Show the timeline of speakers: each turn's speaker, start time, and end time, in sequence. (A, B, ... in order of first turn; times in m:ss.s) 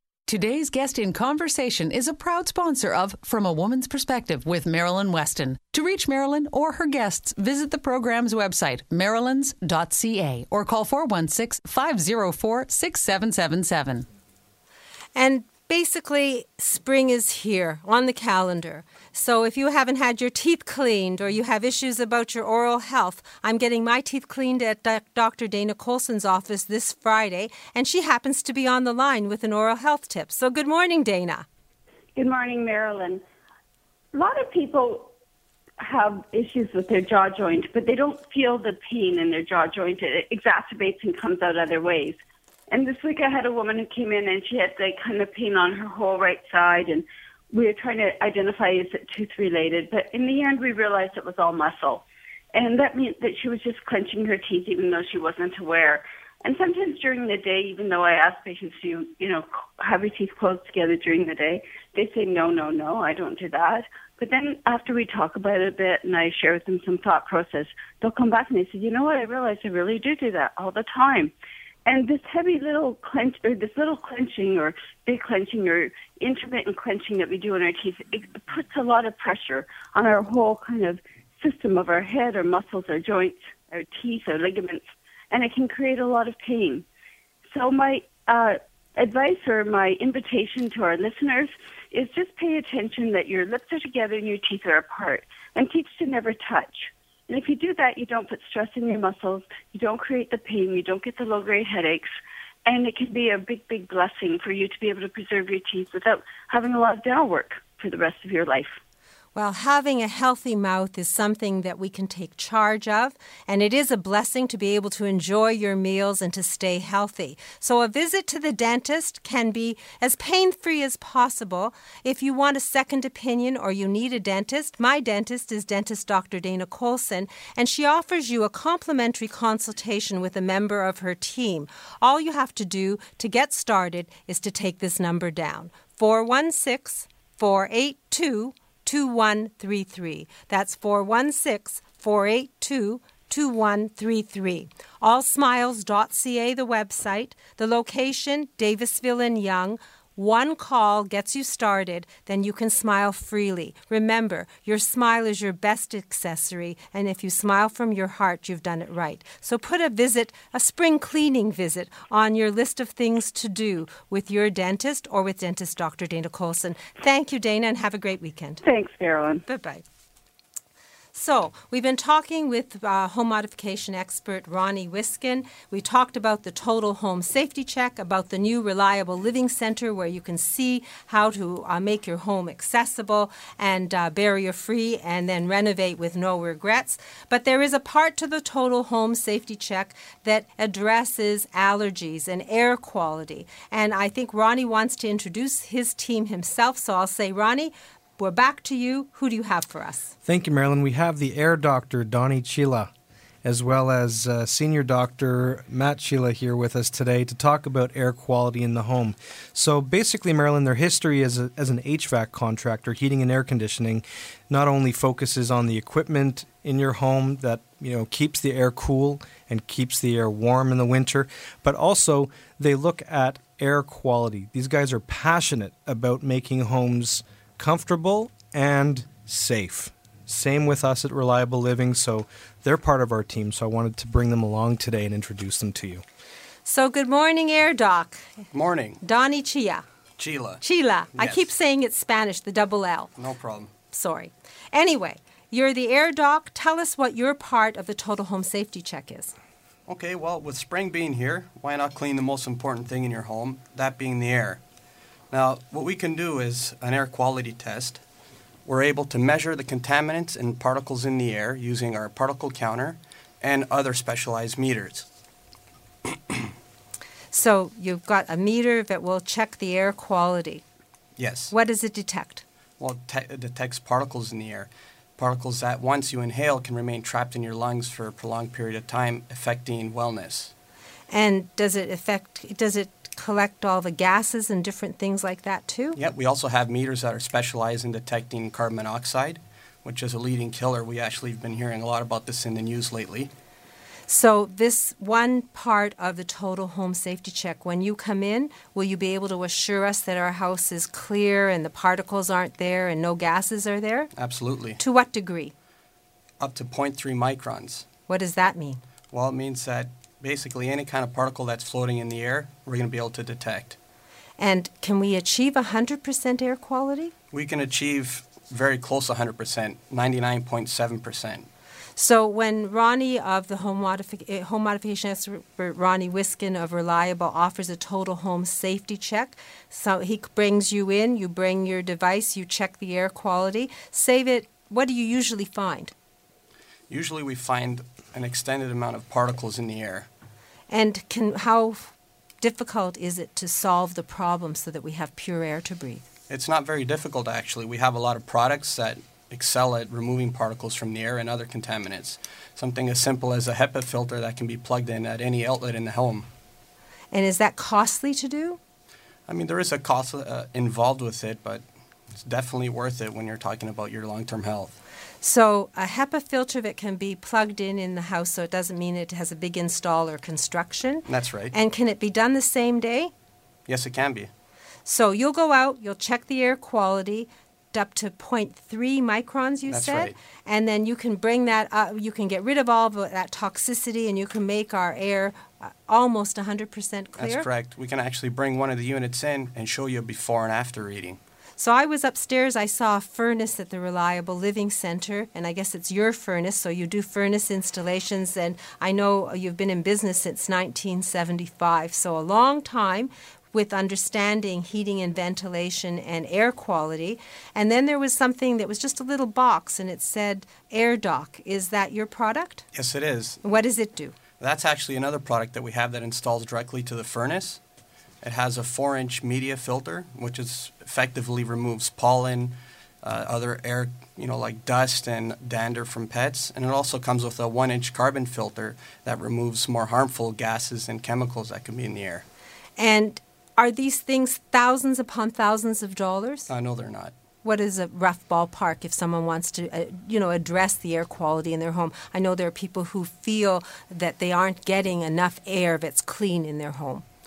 0:00.3-0:14.1 A
0:15.2-0:31.5 B
0:32.2-0:33.2 C
0:34.1-0:35.1 C
0:35.8-0:42.2 C
0:42.7-1:11.3 C
1:11.9-1:26.8 C
1:27.5-1:42.1 C
1:42.7-1:48.8 C
1:49.4-2:48.6 B
2:48.6-2:49.4 C
2:49.5-2:49.8 B
2:51.1-3:20.1 B
3:20.2-3:22.9 D
3:23.4-3:56.0 D
3:56.6-3:58.2 B
3:58.5-3:59.0 E
3:59.0-3:59.8 B
4:00.2-4:00.6 E
4:00.6-4:03.1 B
4:01.2-4:01.5 E
4:03.2-4:03.7 E
4:03.9-4:09.3 B
4:09.9-4:14.6 E
4:15.3-4:18.0 E
4:18.7-4:25.1 E
4:27.3-4:30.6 B
4:31.2-4:31.6 E
4:31.5-4:32.4 B
4:32.8-4:40.5 E
4:41.1-4:46.0 B
4:46.0-4:53.3 E
4:54.1-5:04.1 B
5:04.2-5:04.8 E
5:04.8-5:05.5 B
5:06.4-5:07.9 E
5:08.1-5:08.8 B
5:09.1-5:13.8 E
5:14.4-5:17.1 B
5:17.3-5:21.5 E
5:22.0-5:35.9 B
5:36.9-5:40.1 E
5:40.7-5:46.0 B
5:46.3-5:56.3 E
5:57.1-5:58.6 B
5:59.3-6:04.8 E
6:05.2-6:13.1 B
6:11.1-6:11.6 E
6:13.7-6:14.3 E
6:14.9-6:27.5 B
6:19.7-6:20.2 E
6:27.2-6:31.2 E
6:31.6-6:52.7 B
6:52.7-6:53.4 E
6:53.4-6:54.2 B
6:54.4-6:57.6 E
6:58.2-7:12.2 E
7:12.8-7:16.5 B
7:16.5-7:17.1 E
7:17.4-7:27.0 B